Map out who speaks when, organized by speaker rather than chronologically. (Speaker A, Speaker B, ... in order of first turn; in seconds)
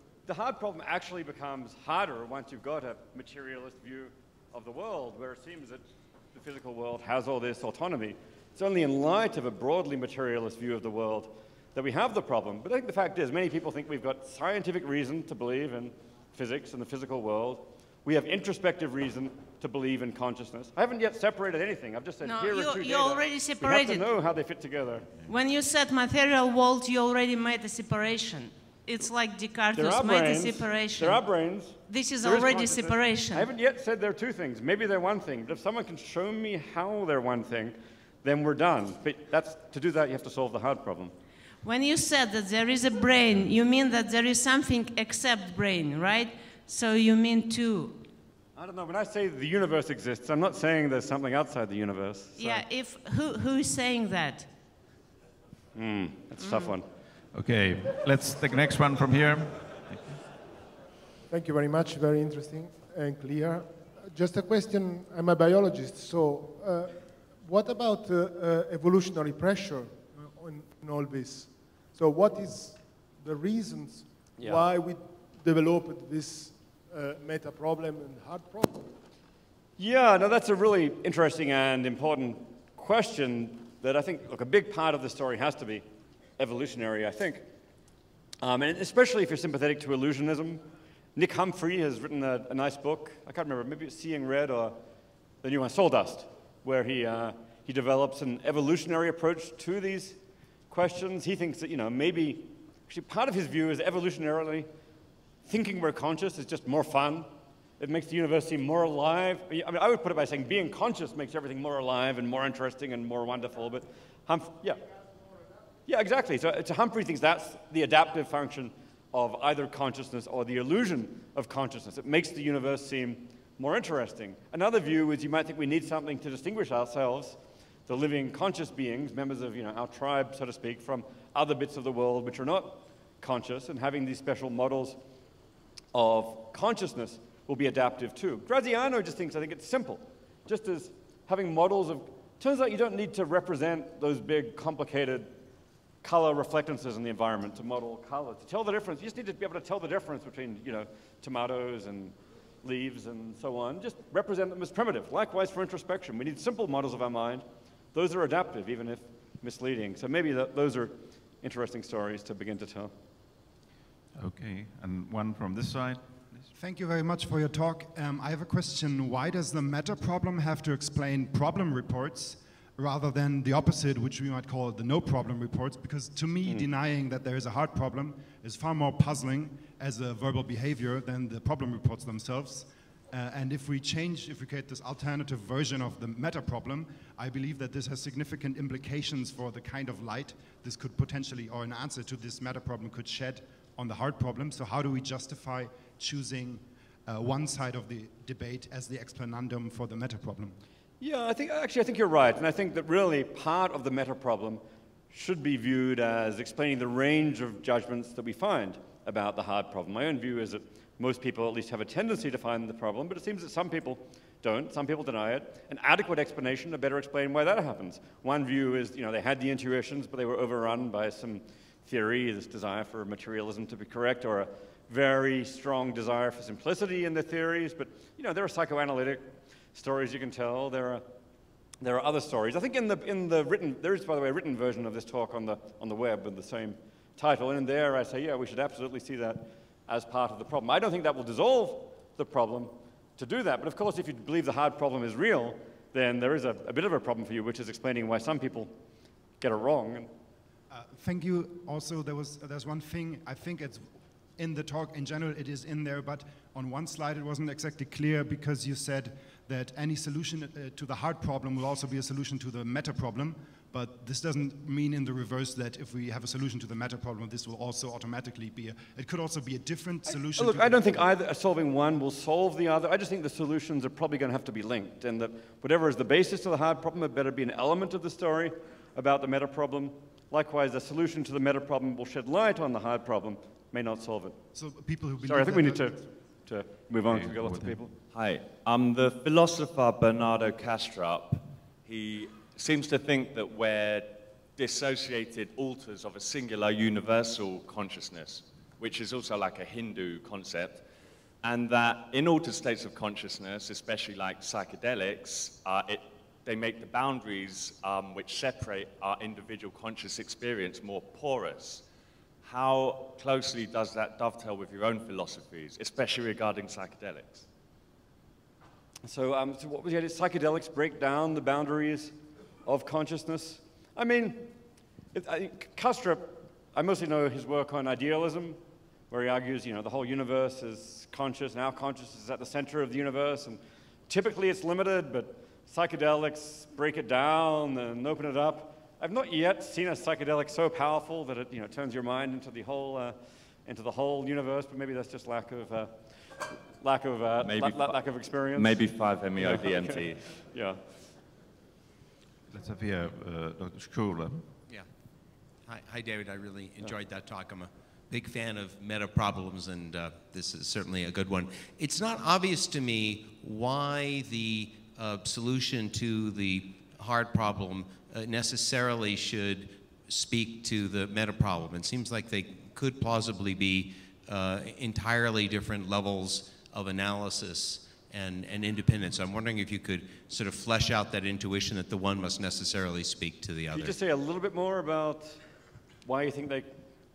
Speaker A: 0.3-25.1, 29.7-41.1, 48.5-52.6, 55.7-56.9, 74.4-74.7, 79.8-85.8, 86.4-87.4, 88.4-90.6, 91.2-94.8, 95.4-100.2, 100.7-104.7, 105.5-114.9, 115.8-135.0, 135.9-145.3, 146.0-162.9, 201.0-231.0, 231.8-248.7, 249.4-250.1, 270.0-284.4, 285.2-287.9, 319.0-324.5, 325.1-328.6, 329.1-348.8, 349.4-350.8, 383.7-385.4, 386.0-386.8
Speaker B: 22.2-24.0, 25.3-31.2, 31.9-33.5, 41.6-48.0, 52.4-54.5, 56.4-56.7
Speaker C: 57.3-60.2, 164.1-166.4, 287.0-287.8, 352.5-354.4
Speaker D: 61.3-79.0
Speaker E: 166.5-200.6, 250.7-271.1, 284.5-286.0
Speaker F: 288.1-300.8, 301.4-311.8, 312.4-317.4, 347.4-350.2
Speaker G: 355.6-383.9